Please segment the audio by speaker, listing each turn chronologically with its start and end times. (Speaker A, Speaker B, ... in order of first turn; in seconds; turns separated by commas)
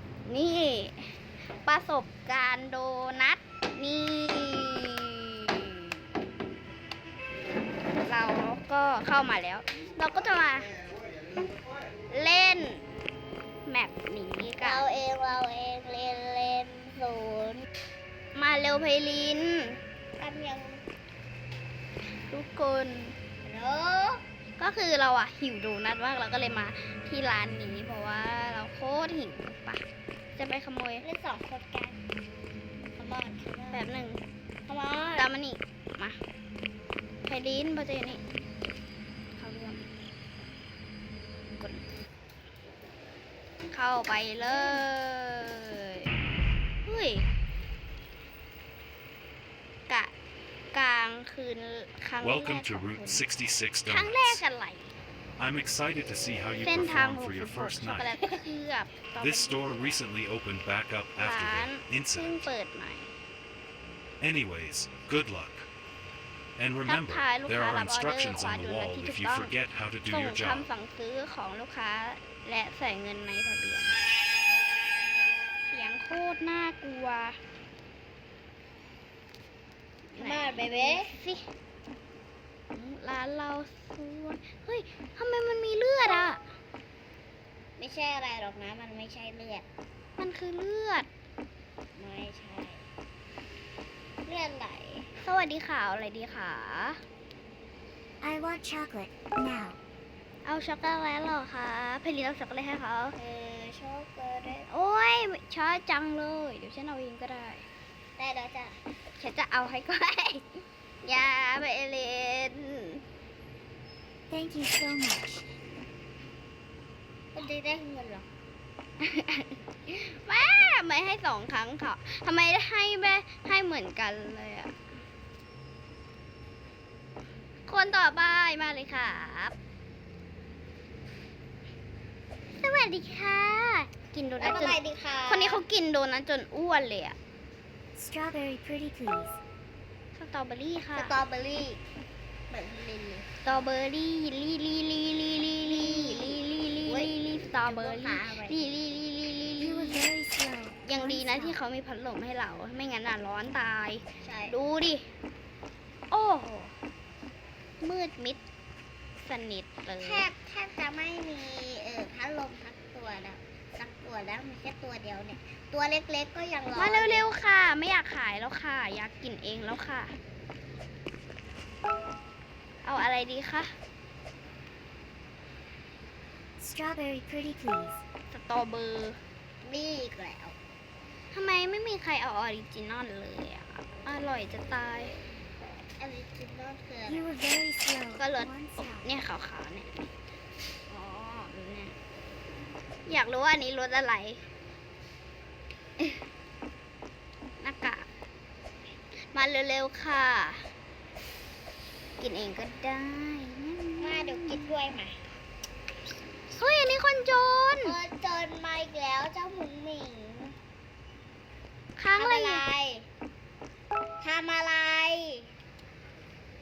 Speaker A: 0.3-1.0, Speaker A: 1.6-5.7, Speaker A: 8.0-10.7, Speaker A: 12.1-12.8, Speaker A: 13.7-14.9, Speaker B: 14.6-17.7, Speaker A: 18.4-19.8, Speaker B: 20.2-20.8, Speaker A: 22.3-23.1, Speaker B: 23.4-24.2, Speaker A: 24.6-29.8, Speaker A: 30.4-31.1, Speaker B: 31.0-32.0, Speaker B: 33.0-33.9, Speaker A: 33.7-34.2, Speaker B: 34.7-35.3, Speaker A: 35.2-36.2, Speaker A: 37.3-38.2, Speaker A: 39.4-39.9, Speaker A: 41.5-41.8, Speaker A: 43.7-46.0, Speaker B: 44.4-44.9, Speaker A: 46.9-47.3, Speaker A: 50.7-53.2, Speaker C: 52.2-54.4, Speaker A: 53.9-54.9, Speaker C: 55.4-58.1, Speaker A: 56.6-60.0, Speaker C: 59.2-62.5, Speaker A: 61.2-63.1, Speaker C: 64.2-65.7, Speaker C: 66.6-70.7, Speaker A: 66.8-69.5, Speaker A: 70.1-74.0, Speaker A: 75.7-77.4, Speaker A: 80.1-81.5, Speaker B: 80.2-81.2, Speaker A: 82.7-86.4, Speaker B: 87.8-89.7, Speaker A: 90.2-91.1, Speaker B: 92.0-92.8, Speaker B: 94.2-95.1, Speaker A: 95.2-97.0, Speaker D: 98.2-99.8, Speaker A: 100.4-103.2, Speaker B: 103.2-104.7, Speaker A: 104.7-107.7, Speaker B: 108.2-108.8, Speaker A: 109.2-110.5, Speaker A: 111.0-113.0, Speaker D: 114.3-115.4, Speaker B: 117.3-118.2, Speaker A: 119.0-124.8, Speaker A: 127.7-129.6, Speaker A: 132.6-137.2, Speaker B: 134.4-135.6, Speaker D: 137.9-139.4, Speaker A: 140.2-141.2, Speaker B: 141.0-141.8, Speaker B: 142.5-143.3, Speaker A: 143.4-150.1, Speaker B: 145.6-147.1, Speaker B: 147.7-148.7, Speaker D: 149.6-151.6, Speaker A: 150.8-155.0, Speaker B: 154.2-154.5, Speaker A: 156.1-156.7, Speaker A: 157.8-158.4, Speaker A: 159.2-160.3, Speaker B: 160.0-167.3, Speaker A: 166.8-170.1, Speaker A: 172.8-173.7, Speaker D: 176.6-178.0, Speaker A: 178.3-179.2, Speaker B: 179.6-180.6, Speaker A: 181.3-185.1, Speaker B: 186.0-187.3, Speaker D: 187.1-189.1, Speaker A: 188.1-190.1, Speaker B: 190.9-191.5, Speaker A: 191.5-191.9, Speaker A: 193.1-194.4, Speaker A: 197.6-198.1, Speaker A: 199.3-200.7, Speaker A: 202.2-204.6, Speaker B: 204.0-205.2, Speaker A: 206.5-208.0, Speaker B: 207.8-210.6, Speaker A: 212.0-212.7, Speaker B: 212.1-213.1, Speaker B: 214.2-215.5